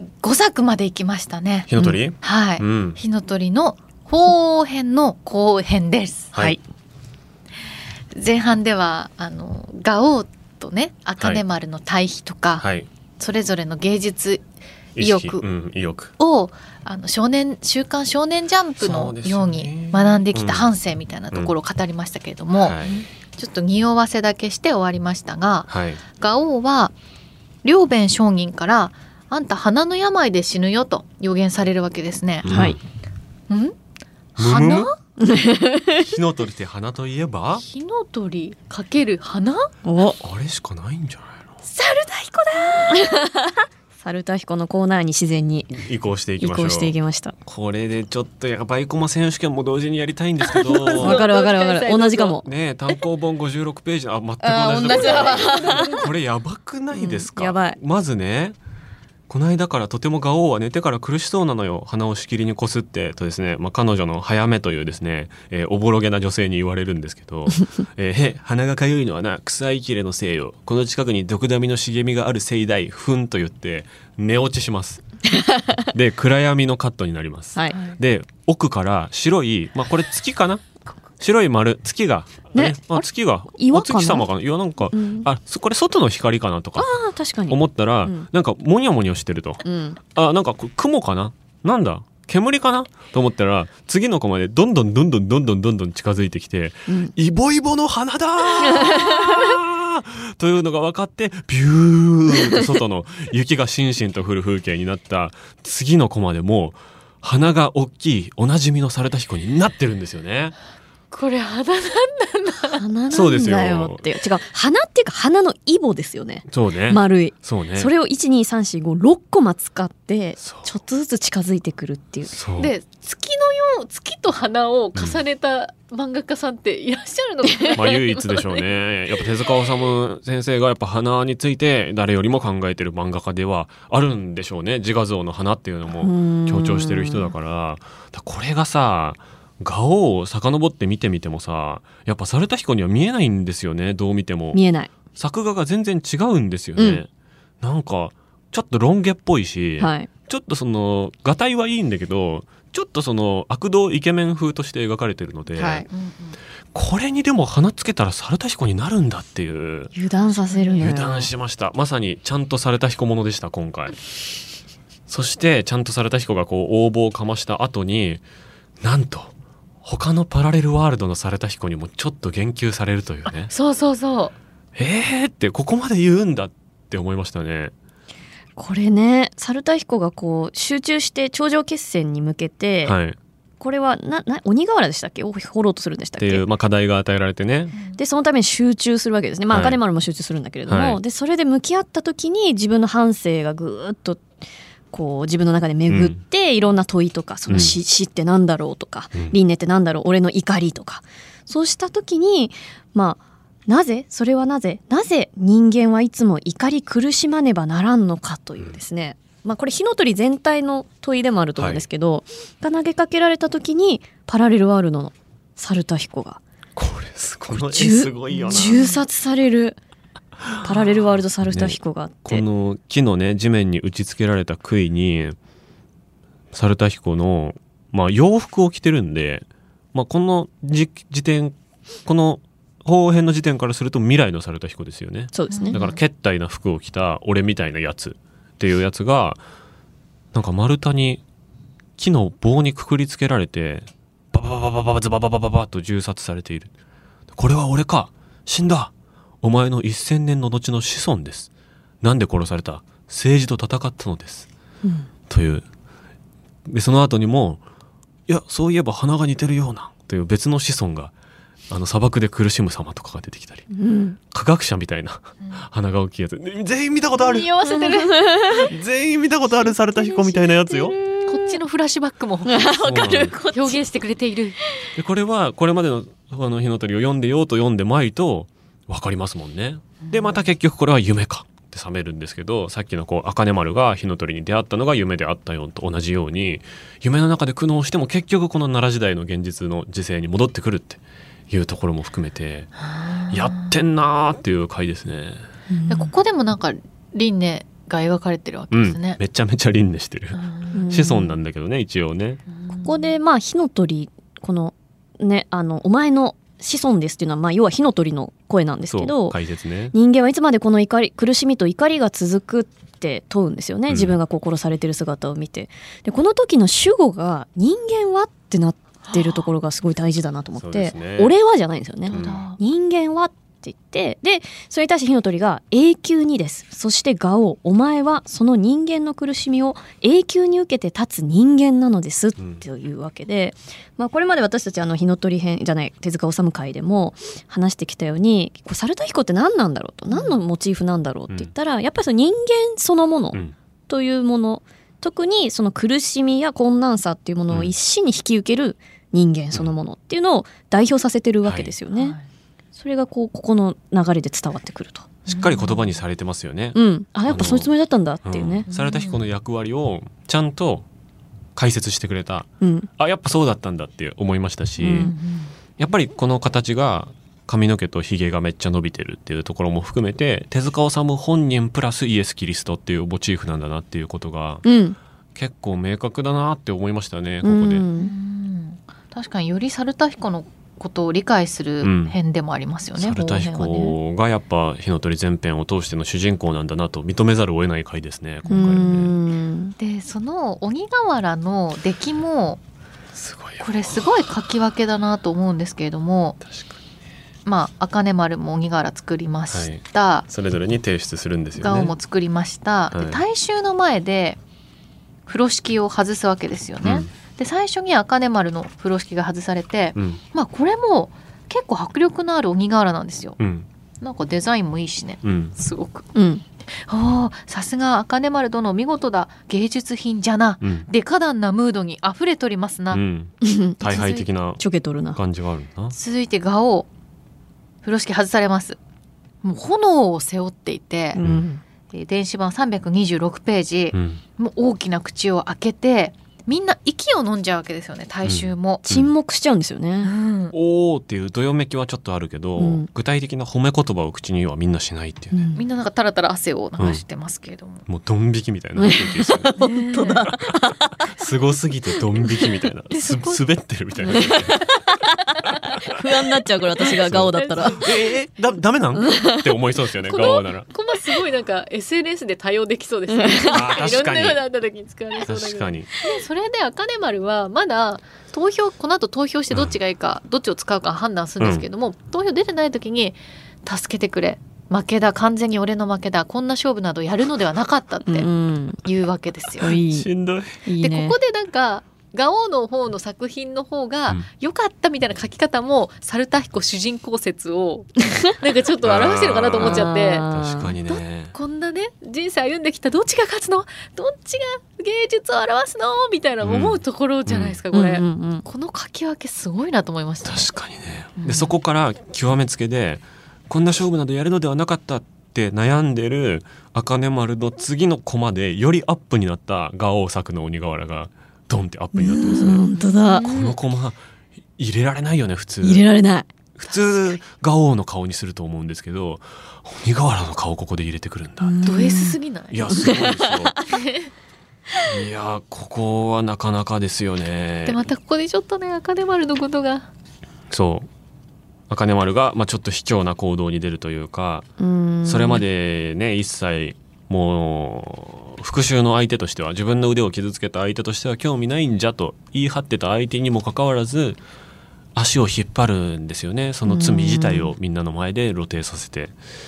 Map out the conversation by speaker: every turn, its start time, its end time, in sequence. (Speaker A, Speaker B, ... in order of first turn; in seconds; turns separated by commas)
Speaker A: 0.2-6.3, Speaker B: 1.7-3.0, Speaker C: 6.3-6.6, Speaker A: 8.1-12.7, Speaker B: 12.6-12.9, Speaker A: 13.2-14.4, Speaker B: 15.0-16.1, Speaker A: 15.0-15.4, Speaker A: 16.2-26.9, Speaker B: 18.8-20.7, Speaker B: 22.6-23.0, Speaker B: 25.7-26.0, Speaker A: 27.6-32.5, Speaker B: 32.5-32.8, Speaker C: 32.5-32.8, Speaker A: 33.5-33.8, Speaker A: 34.4-34.9, Speaker B: 34.4-34.9, Speaker C: 35.2-36.2, Speaker B: 36.0-37.6, Speaker A: 37.6-39.7, Speaker C: 39.8-40.2, Speaker B: 40.2-41.5, Speaker A: 41.6-43.2, Speaker C: 42.9-45.7, Speaker B: 45.7-46.9, Speaker C: 46.4-47.4, Speaker B: 47.5-51.2, Speaker A: 50.5-52.4, Speaker C: 50.9-52.5, Speaker B: 52.4-58.6, Speaker C: 54.4-56.1, Speaker A: 54.9-56.1, Speaker C: 56.9-57.8, Speaker B: 59.3-75.0, Speaker C: 75.3-75.9, Speaker B: 75.9-80.7, Speaker C: 77.6-77.8, Speaker B: 81.2-87.0, Speaker C: 82.5-84.3, Speaker C: 84.9-85.3, Speaker C: 86.8-88.3, Speaker B: 87.5-89.6, Speaker C: 89.6-90.0, Speaker B: 90.2-110.6, Speaker C: 96.9-97.1, Speaker C: 98.6-99.5, Speaker A: 111.1-112.8, Speaker C: 112.8-122.3, Speaker B: 113.1-114.1, Speaker B: 116.5-117.9, Speaker B: 120.4-120.7, Speaker B: 122.3-122.7, Speaker A: 122.6-128.7, Speaker B: 127.8-144.6, Speaker C: 136.0-137.3, Speaker C: 144.5-144.9, Speaker B: 145.1-147.1, Speaker C: 146.8-147.0, Speaker B: 147.6-155.9, Speaker C: 149.8-150.1, Speaker C: 155.5-155.8, Speaker A: 155.9-156.4, Speaker B: 156.7-159.9, Speaker C: 159.9-161.3, Speaker A: 160.3-161.0, Speaker B: 160.8-164.0, Speaker B: 165.1-168.2, Speaker B: 168.8-169.3, Speaker B: 169.8-173.5, Speaker A: 173.3-174.3, Speaker B: 174.8-177.7, Speaker C: 178.6-183.0, Speaker B: 182.8-183.2, Speaker C: 183.6-186.4, Speaker B: 186.2-187.8, Speaker A: 187.7-188.0, Speaker C: 187.9-194.3, Speaker B: 189.5-189.8, Speaker B: 190.7-191.0, Speaker C: 194.9-216.4, Speaker B: 195.9-196.2, Speaker B: 197.5-197.8, Speaker B: 211.6-211.8, Speaker B: 216.8-218.8, Speaker C: 217.5-219.8, Speaker A: 218.3-219.0, Speaker C: 220.6-222.4, Speaker B: 221.5-225.4, Speaker B: 226.5-231.6, Speaker B: 232.1-239.4, Speaker C: 235.3-235.8, Speaker A: 235.5-236.0, Speaker B: 240.3-241.2, Speaker B: 242.0-246.7, Speaker B: 247.3-248.9, Speaker B: 249.4-251.5, Speaker B: 252.0-254.5, Speaker B: 255.3-255.6, Speaker B: 256.7-257.6, Speaker B: 258.3-261.1, Speaker B: 261.7-263.7, Speaker C: 263.7-264.2, Speaker B: 264.3-267.6, Speaker A: 267.2-268.6, Speaker C: 267.7-268.7, Speaker B: 268.5-271.0, Speaker C: 269.7-271.6, Speaker A: 271.2-274.6, Speaker C: 272.5-273.8, Speaker B: 272.8-273.4, Speaker B: 274.9-292.7, Speaker A: 292.8-293.6, Speaker B: 293.3-295.4, Speaker C: 295.7-296.1, Speaker A: 295.9-299.2, Speaker B: 298.7-302.4, Speaker A: 300.3-300.8, Speaker C: 300.7-301.3, Speaker A: 302.5-303.1, Speaker C: 302.8-309.4, Speaker B: 308.9-309.9, Speaker C: 309.9-352.2, Speaker B: 313.9-314.2, Speaker A: 319.1-319.5, Speaker B: 320.6-321.3, Speaker A: 322.1-322.6, Speaker B: 322.1-322.4, Speaker A: 340.1-340.4, Speaker B: 351.4-351.7, Speaker A: 351.9-352.2, Speaker C: 352.8-355.1, Speaker A: 355.3-355.8, Speaker B: 355.3-357.7, Speaker C: 356.7-358.7, Speaker B: 358.2-360.9, Speaker A: 358.7-359.2, Speaker B: 361.6-365.1, Speaker C: 362.6-362.9, Speaker C: 364.8-365.1, Speaker A: 364.9-365.5, Speaker B: 365.8-374.6, Speaker C: 374.6-375.0, Speaker B: 375.4-377.9, Speaker C: 377.4-378.1, Speaker A: 378.0-383.9, Speaker B: 381.8-382.2, Speaker B: 383.0-389.1, Speaker A: 388.5-388.9, Speaker C: 388.5-389.8, Speaker A: 389.8-392.6, Speaker B: 393.1-393.7, Speaker A: 393.6-396.4, Speaker B: 396.4-396.8, Speaker A: 397.5-400.3, Speaker B: 399.5-401.9, Speaker A: 401.6-404.4, Speaker B: 402.9-403.2, Speaker A: 405.3-413.4, Speaker B: 406.8-407.1, Speaker B: 410.0-410.2, Speaker B: 413.4-413.7, Speaker A: 414.0-416.1, Speaker B: 415.2-415.6, Speaker C: 416.1-416.4, Speaker A: 416.9-423.0, Speaker B: 420.6-420.9, Speaker B: 422.9-424.6, Speaker C: 423.4-425.2, Speaker B: 425.1-426.0, Speaker A: 425.9-426.9, Speaker A: 427.8-428.8, Speaker A: 429.4-431.2, Speaker C: 431.1-431.6, Speaker B: 431.2-431.5, Speaker A: 431.9-438.8, Speaker B: 433.9-434.2, Speaker B: 438.2-439.1, Speaker C: 438.9-440.1, Speaker A: 440.0-440.5, Speaker B: 440.5-445.5, Speaker C: 442.6-442.9, Speaker C: 445.3-445.6, Speaker A: 445.5-447.8, Speaker B: 447.9-449.5, Speaker C: 448.8-451.1, Speaker A: 449.6-450.3, Speaker B: 450.3-454.7, Speaker C: 452.2-452.5, Speaker A: 452.9-453.4, Speaker C: 454.1-455.1, Speaker A: 454.1-455.8, Speaker C: 455.8-457.8, Speaker A: 456.8-458.0, Speaker B: 456.9-460.7, Speaker C: 459.0-459.6, Speaker A: 460.1-478.3, Speaker C: 463.1-463.7, Speaker B: 463.5-464.4, Speaker B: 465.3-465.9, Speaker B: 471.4-471.7, Speaker C: 478.1-478.8, Speaker A: 478.8-479.8, Speaker C: 479.6-480.1, Speaker B: 479.7-480.6, Speaker C: 480.6-481.2, Speaker A: 480.8-490.3, Speaker B: 488.8-491.4, Speaker C: 489.6-490.8, Speaker A: 490.9-500.5, Speaker B: 496.4-497.6, Speaker C: 497.7-498.5, Speaker B: 500.2-512.6, Speaker A: 501.2-501.5, Speaker C: 511.9-513.3, Speaker A: 512.7-513.5, Speaker B: 513.2-514.0, Speaker B: 514.6-515.9, Speaker C: 515.6-516.3, Speaker B: 516.6-521.7, Speaker C: 521.4-522.2, Speaker A: 521.6-522.7, Speaker B: 522.5-523.6, Speaker C: 522.7-523.6, Speaker A: 523.7-524.1, Speaker B: 524.8-527.8, Speaker A: 527.7-529.9, Speaker B: 530.5-530.9, Speaker B: 531.7-534.5, Speaker C: 534.6-535.4, Speaker B: 535.0-544.2, Speaker B: 545.0-549.2, Speaker C: 546.6-547.5